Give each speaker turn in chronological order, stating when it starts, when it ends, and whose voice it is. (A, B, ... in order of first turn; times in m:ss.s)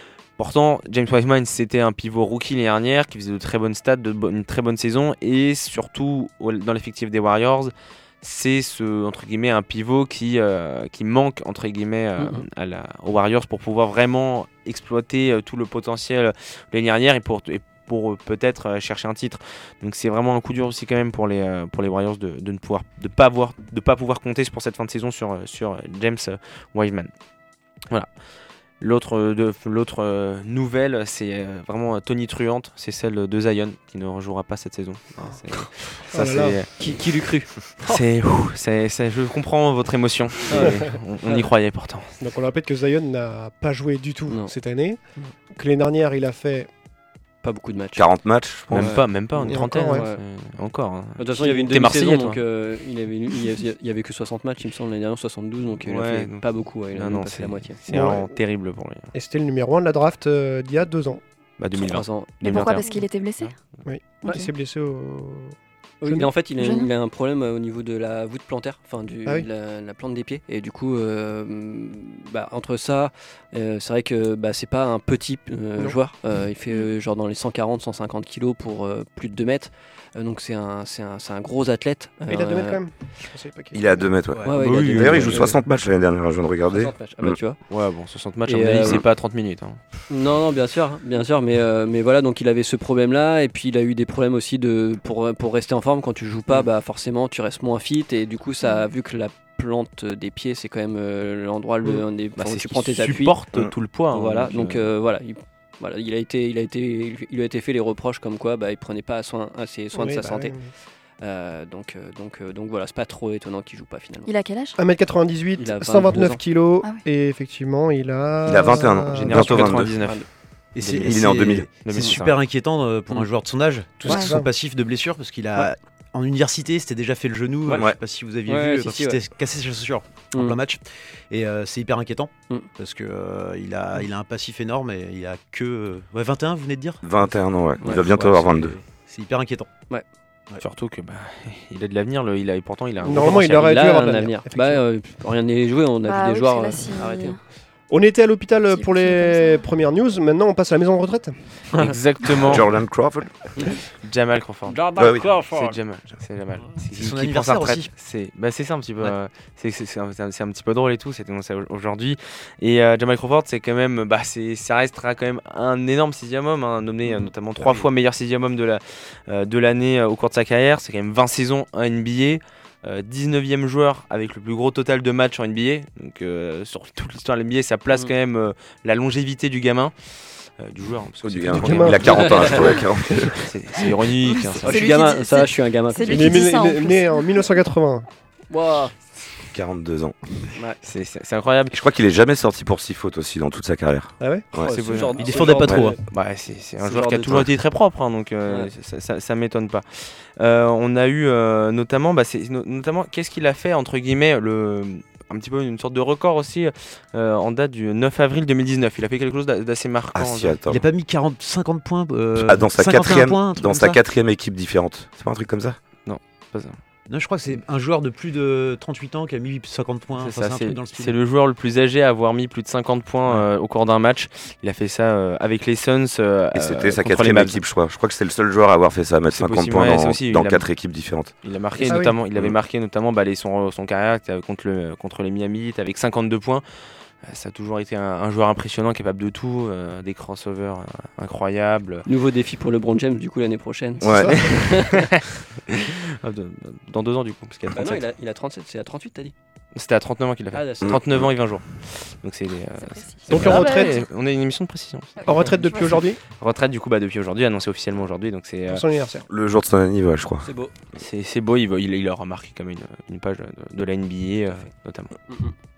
0:00.4-0:27.1 A
0:12.2-0:12.4 B
0:28.8-0:36.7 A
0:36.1-0:36.6 C
0:36.8-0:38.0 B
0:37.8-0:42.1 A
0:40.5-0:41.5 B
0:42.2-0:45.0 C
0:44.3-0:44.5 B
0:45.5-0:46.7 C
0:47.4-0:48.1 B
0:48.0-0:49.0 D
0:48.7-0:52.4 A
0:48.7-0:50.2 B
0:49.4-0:50.1 C
0:51.2-0:57.8 B
0:55.8-0:59.1 A
0:57.9-0:58.3 C
0:59.1-1:01.2 C
1:01.6-1:03.6 A
1:01.8-1:02.4 B
1:02.4-1:03.5 E
1:03.9-1:06.3 C
1:06.0-1:22.8 B
1:06.6-1:06.9 E
1:22.3-1:24.1 C
1:23.7-1:27.4 D
1:24.3-1:24.6 F
1:24.4-1:25.6 B
1:24.6-1:25.5 A
1:26.7-1:27.6 B
1:27.7-1:29.8 A
1:28.5-1:29.0 B
1:30.1-1:43.4 B
1:42.4-1:44.9 A
1:44.1-1:50.5 B
1:50.0-1:50.7 C
1:51.2-1:54.3 B
1:54.3-1:54.8 E
1:54.8-1:59.7 C
1:55.6-1:56.4 B
1:58.5-2:00.0 D
1:59.1-2:00.3 A
2:00.8-2:19.7 F
2:00.8-2:02.3 A
2:01.0-2:01.7 D
2:04.0-2:04.5 C
2:04.0-2:04.3 E
2:07.7-2:08.0 D
2:08.5-2:09.2 B
2:10.3-2:10.6 B
2:17.0-2:18.8 D
2:17.8-2:18.1 B
2:20.6-2:24.0 A
2:23.0-2:24.8 C
2:23.2-2:27.4 B
2:26.1-2:27.4 E
2:27.9-2:31.3 C
2:28.7-2:29.6 E
2:31.8-2:32.7 A
2:32.4-2:33.3 D
2:34.0-2:59.9 A
2:34.7-2:35.8 B
2:35.0-2:35.3 D
2:36.9-2:37.9 F
3:00.6-3:02.8 A
3:01.2-3:03.5 D
3:01.5-3:02.3 C
3:02.1-3:02.8 B
3:03.4-3:04.8 A
3:04.3-3:07.5 E
3:04.6-3:06.5 B
3:06.1-3:08.1 C
3:08.5-3:08.9 B
3:09.5-3:10.2 D
3:10.8-3:11.7 A
3:11.7-3:14.7 D
3:14.2-3:14.5 C
3:14.6-3:16.0 B
3:14.7-3:30.6 A
3:15.1-3:16.0 F
3:16.8-3:17.4 B
3:30.2-3:30.9 D
3:30.7-3:34.0 F
3:32.4-3:35.8 D
3:36.1-3:36.8 A
3:37.1-3:41.2 F
3:40.2-3:47.6 A
3:46.6-3:51.3 D
3:49.3-3:50.7 A
3:51.4-3:56.6 A
3:51.8-3:52.1 C
3:57.2-4:02.1 A
4:02.1-4:05.1 B
4:04.0-4:04.4 D
4:04.1-4:04.4 C
4:04.4-4:08.0 A
4:07.7-4:09.3 B
4:09.8-4:15.3 A
4:10.5-4:11.0 B
4:10.8-4:11.3 D
4:12.8-4:14.1 E
4:13.3-4:13.9 C
4:15.2-4:16.0 E
4:15.2-4:16.2 C
4:16.4-4:18.8 A
4:18.7-4:19.3 C
4:19.3-4:20.5 D
4:20.4-4:20.7 B
4:21.0-4:25.1 A